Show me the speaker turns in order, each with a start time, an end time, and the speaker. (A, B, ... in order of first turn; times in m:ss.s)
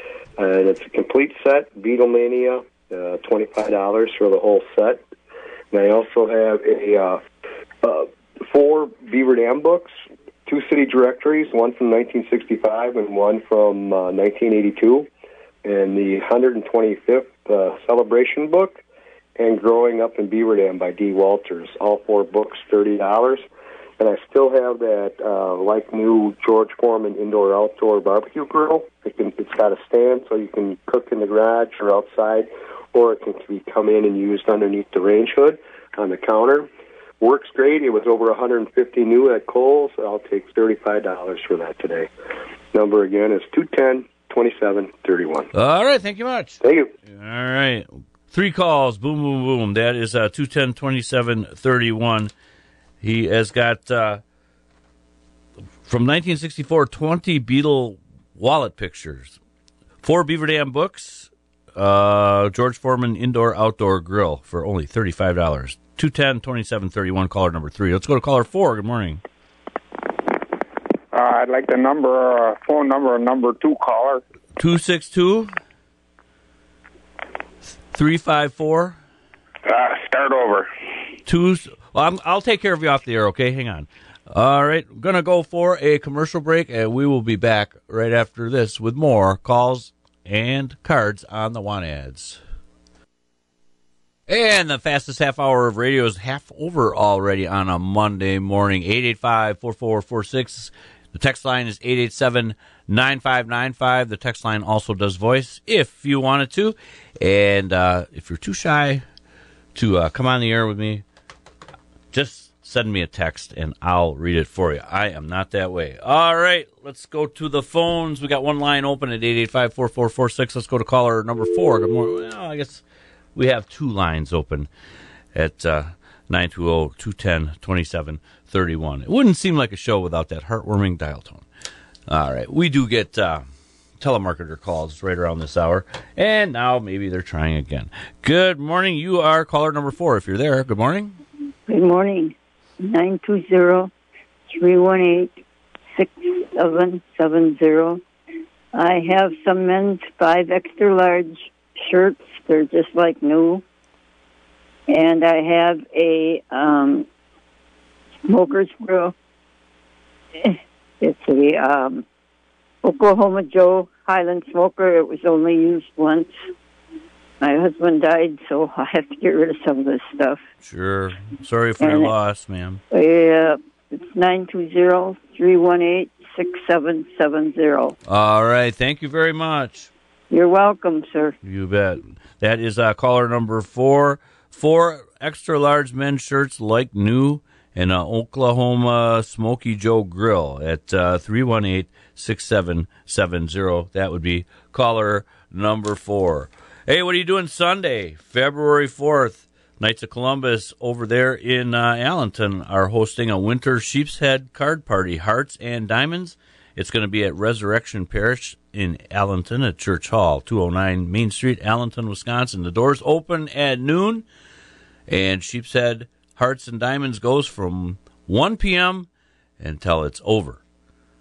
0:00.4-0:05.0 A
0:05.7-0:07.2 A
0:07.8-0:09.9 A
0:10.4-0:15.1 A
0:15.6-0:18.8 A
0:19.4-0:23.4 A
0:24.0-0:36.7 A
0:37.2-0:42.1 A
0:42.7-0:45.5 A
0:45.5-0:46.6 B
0:46.6-0:46.9 A
0:47.1-0:52.3 B
0:53.0-0:54.2 B
0:55.8-0:59.4 B
1:00.0-1:09.2 B
1:11.1-1:14.2 C
1:14.6-1:15.5 B
1:17.9-1:19.0 B
1:19.6-1:20.7 C
1:21.2-1:32.4 B
1:34.3-1:49.0 B
1:49.7-1:51.0 B
1:52.1-2:02.8 B
2:03.3-2:04.7 B
2:05.3-2:11.4 B
2:12.1-2:13.4 B
2:14.0-2:21.2 B
2:21.7-2:23.9 D
2:24.5-2:25.3 D
2:25.9-2:28.0 D
2:28.7-2:33.6 D
2:34.9-2:37.1 D
2:38.3-2:39.1 D
2:40.4-2:42.0 D
2:42.8-2:46.3 D
2:47.4-2:50.4 D
2:50.6-2:52.8 B
2:51.8-2:52.1 D
2:52.9-2:57.9 D
2:58.0-2:59.9 B
3:00.3-3:01.3 D
3:01.4-3:34.3 B
3:35.1-3:40.6 B